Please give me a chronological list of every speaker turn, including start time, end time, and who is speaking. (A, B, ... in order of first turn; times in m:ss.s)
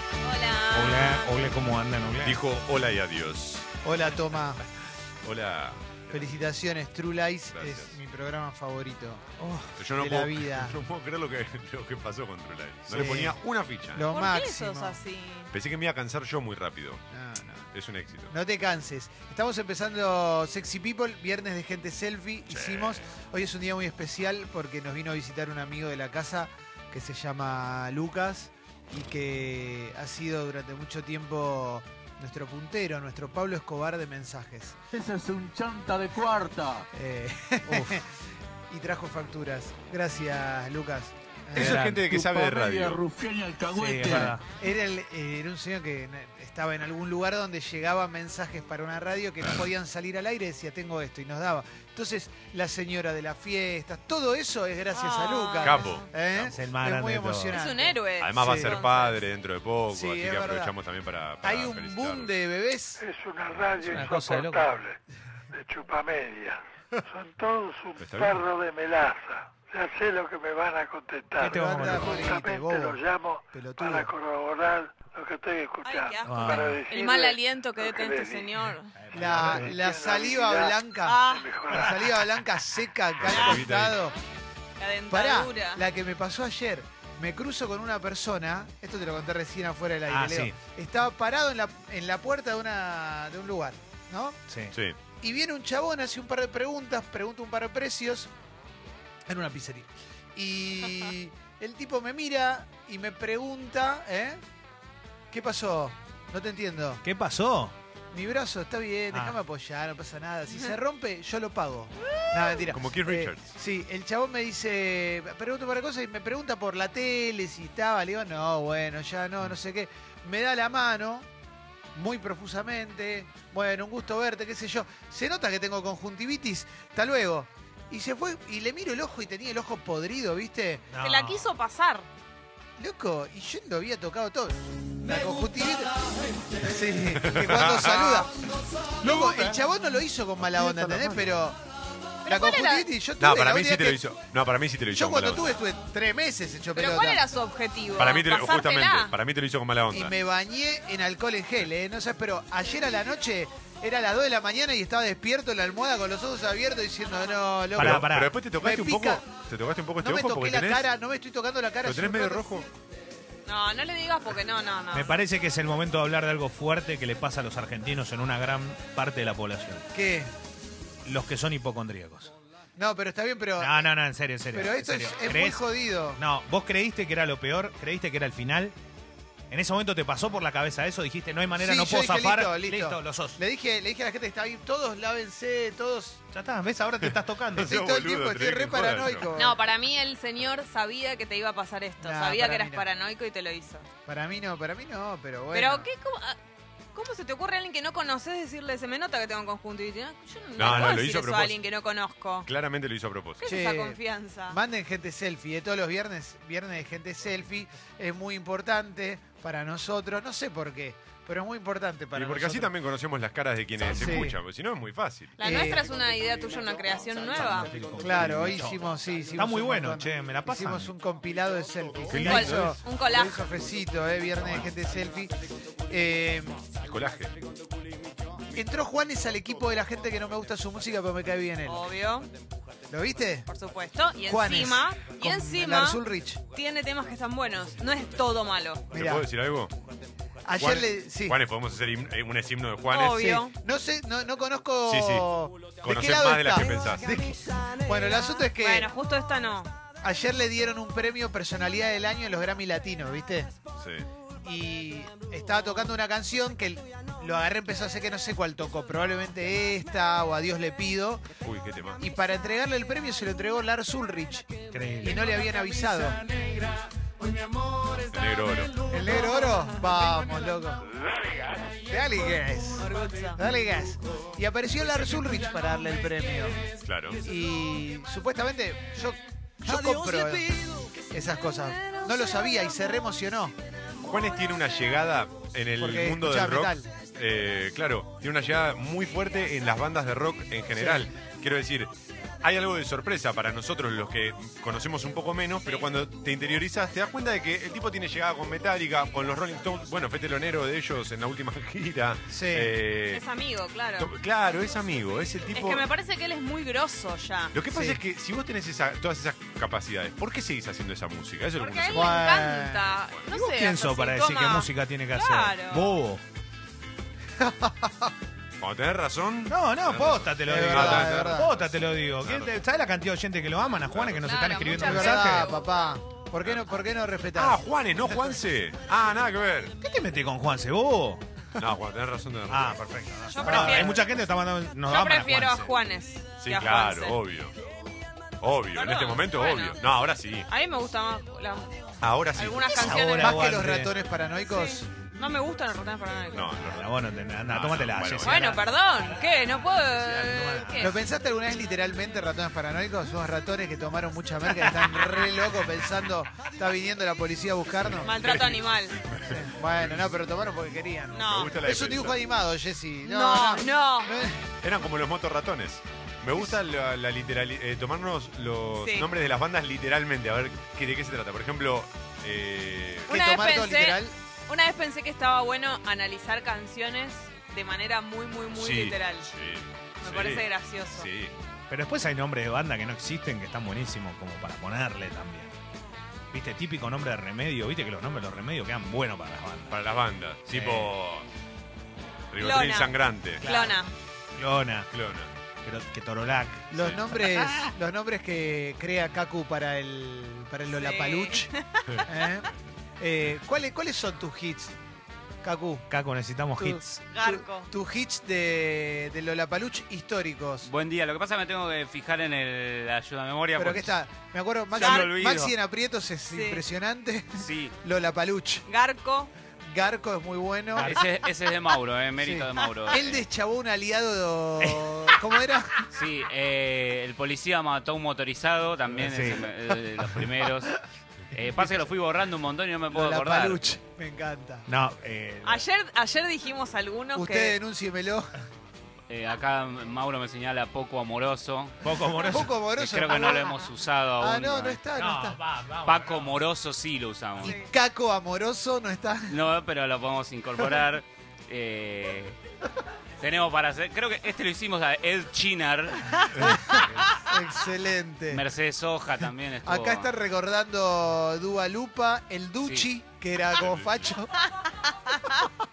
0:00.2-0:01.3 A
0:00.7-0:02.4 B
0:02.2-0:03.7 C
0:03.8-0:04.6 D
0:05.2-0:06.4 C
0:06.1-0:09.2 D
0:07.5-0:08.0 C
0:09.4-0:09.7 B
0:09.8-0:14.0 C
0:09.9-0:10.8 D
0:12.9-0:13.4 D
0:13.9-0:15.0 D
0:14.1-0:15.5 A
0:15.5-0:17.0 C
0:17.1-0:17.7 D
0:17.7-0:18.3 C
0:18.3-0:34.8 D
0:22.5-0:23.0 C
0:34.9-0:36.8 E
0:36.9-0:38.2 D
0:37.6-0:38.0 B
0:38.7-0:41.8 D
0:41.5-0:42.0 B
0:41.5-0:43.0 C
0:42.0-0:44.4 E
0:43.7-0:44.4 B
0:44.6-0:58.8 D
0:54.9-0:56.1 A
0:55.6-0:56.5 C
0:56.4-0:57.6 B
0:57.5-0:59.2 A
0:58.2-1:02.3 C
0:59.9-1:00.7 D
1:01.4-1:03.0 D
1:03.0-1:05.0 F
1:03.8-1:04.7 B
1:05.5-1:18.8 F
1:08.0-1:08.4 C
1:11.4-1:12.3 B
1:11.4-1:14.1 D
1:15.8-1:18.9 A
1:16.2-1:16.8 B
1:19.0-1:19.8 B
1:19.1-1:24.2 D
1:19.3-1:22.2 F
1:21.0-1:21.5 A
1:23.2-1:24.0 C
1:23.3-1:23.6 A
1:24.8-1:25.8 A
1:25.1-1:34.4 D
1:30.1-1:30.6 B
1:34.5-1:34.7 B
1:35.2-1:38.3 D
1:39.3-1:44.4 D
1:45.3-1:47.0 D
1:47.0-1:47.7 B
1:48.1-2:01.2 D
1:49.1-1:49.4 B
1:52.1-1:52.6 A
1:52.7-1:53.4 C
2:01.9-2:10.9 D
2:10.9-2:11.4 B
2:11.0-2:12.1 A
2:12.8-2:15.9 D
2:16.6-2:18.4 D
2:17.2-2:18.2 C
2:19.0-2:21.6 D
2:19.0-2:19.6 B
2:20.5-2:21.2 B
2:22.2-2:22.9 A
2:22.2-2:24.0 D
2:23.2-2:25.5 C
2:24.9-2:27.2 D
2:26.7-2:29.1 A
2:28.0-2:30.1 C
2:29.9-2:39.2 D
2:37.7-2:38.4 B
2:37.8-2:40.8 C
2:40.0-2:42.6 D
2:41.8-2:42.7 C
2:43.4-2:45.2 A
2:44.9-2:49.8 B
2:49.9-2:50.3 D
2:51.0-2:52.3 B
2:52.8-2:53.9 D
2:53.6-2:58.8 B
2:54.5-2:56.2 D
2:59.5-3:03.4 B
3:01.5-3:06.2 D
3:06.3-3:07.8 B
3:07.0-3:09.3 C
3:07.6-3:09.6 D
3:09.3-3:13.9 A
3:12.0-3:12.8 D
3:14.0-3:15.9 D
3:15.5-3:16.4 A
3:16.9-3:22.5 A
3:20.6-3:21.6 C
3:22.4-3:23.4 C
3:23.4-3:24.6 A
3:23.4-3:32.7 D
3:32.1-3:35.4 C
3:33.8-3:34.4 D
3:35.4-3:37.7 A
3:35.4-3:35.9 D
3:37.3-3:40.9 B
3:38.0-3:45.3 D
3:42.1-3:42.8 C
3:42.2-3:43.4 A
3:45.9-3:46.6 D
3:46.8-3:47.3 C
3:48.5-3:51.9 D
3:51.6-3:52.3 A
3:52.9-3:53.5 D
3:53.5-3:56.0 A
3:54.2-3:56.4 D
3:56.5-3:58.8 A
3:58.9-3:59.7 C
3:58.9-3:59.2 D
4:00.4-4:01.4 D
4:00.6-4:03.3 C
4:02.9-4:03.5 A
4:03.2-4:08.9 D
4:04.8-4:05.2 C
4:05.8-4:07.2 C
4:08.1-4:09.7 A
4:10.0-4:13.5 D
4:13.8-4:14.0 C
4:14.4-4:21.3 D
4:21.4-4:22.0 C
4:22.0-4:26.3 D
4:24.7-4:25.2 B
4:28.1-4:28.8 C
4:28.9-4:30.8 D
4:31.9-4:36.6 D
4:32.8-4:33.4 A
4:36.8-4:37.2 C
4:37.2-4:43.5 D
4:44.0-4:51.9 C
4:45.8-4:46.9 D
4:50.7-4:51.1 D
4:52.4-5:03.2 C
5:02.3-5:02.7 D
5:03.1-5:04.1 A
5:04.0-5:05.8 C
5:05.5-5:07.5 A
5:07.5-5:12.3 C
5:07.7-5:08.0 D
5:11.6-5:16.0 A
5:11.9-5:12.9 D
5:13.3-5:16.2 B
5:17.4-5:18.1 D
5:18.6-5:22.6 C
5:19.5-5:25.5 B
5:20.4-5:21.5 D
5:23.9-5:24.4 C
5:24.2-5:25.7 A
5:24.7-5:27.6 D
5:27.3-5:29.7 C
5:29.8-5:31.2 B
5:31.6-5:32.8 C
5:32.5-5:35.7 B
5:33.3-5:34.0 A
5:33.4-5:34.0 D
5:34.9-5:37.2 A
5:36.4-5:37.5 C
5:38.4-5:40.5 C
5:38.7-5:39.8 A
5:40.5-5:41.7 A
5:42.0-5:43.0 C
5:42.3-5:43.4 A
5:42.7-5:43.9 B
5:43.2-5:44.9 D
5:44.5-5:46.6 A
5:46.3-5:46.9 C
5:46.6-5:48.7 B
5:47.5-5:48.6 C
5:48.2-5:51.0 A
5:49.9-5:51.0 B
5:50.8-5:58.2 D
5:58.0-5:59.0 A
5:58.1-6:00.0 C
5:59.2-6:04.4 D
6:01.1-6:01.6 A
6:01.2-6:02.2 C
6:03.0-6:04.3 A
6:04.6-6:13.1 C
6:08.8-6:09.1 A
6:13.1-6:14.1 D
6:13.1-6:19.3 A
6:18.6-6:21.3 C
6:20.0-6:21.1 A
6:21.7-6:25.5 B
6:26.3-6:29.8 B
6:29.7-6:31.2 C
6:30.4-6:30.9 B
6:32.3-6:33.4 C
6:32.4-6:33.9 A
6:33.4-6:33.8 D
6:34.4-6:34.9 B
6:34.9-6:35.3 C
6:35.6-6:36.8 B
6:36.7-6:41.5 D
6:40.7-6:42.1 A
6:42.0-6:44.8 D
6:45.4-6:45.9 D
6:45.9-6:47.0 B
6:46.6-6:50.7 D
6:47.1-6:47.7 A
6:50.6-6:53.9 G
6:53.6-6:58.6 D
6:54.7-6:55.5 G
6:56.3-6:56.6 A
6:57.3-6:57.7 G
6:58.7-6:59.3 A
6:59.7-7:01.0 D
7:00.7-7:01.0 B
7:00.8-7:03.2 G
7:02.2-7:05.9 D
7:04.6-7:05.1 B
7:05.9-7:10.7 G
7:08.9-7:10.0 B
7:11.3-7:13.6 G
7:12.9-7:14.7 D
7:14.7-7:15.6 B
7:15.4-7:17.5 A
7:17.1-7:18.3 D
7:19.1-7:21.8 G
7:21.8-7:22.5 B
7:22.3-7:23.6 D
7:22.6-7:24.8 G
7:24.2-7:25.4 D
7:24.9-7:26.3 B
7:25.8-7:27.6 G
7:27.4-7:27.7 A
7:27.4-7:29.4 D
7:29.3-7:32.4 G
7:33.2-7:36.2 G
7:36.4-7:38.4 D
7:38.3-7:40.1 G
7:39.6-7:44.3 D
7:42.6-7:42.9 G
7:43.5-7:44.1 C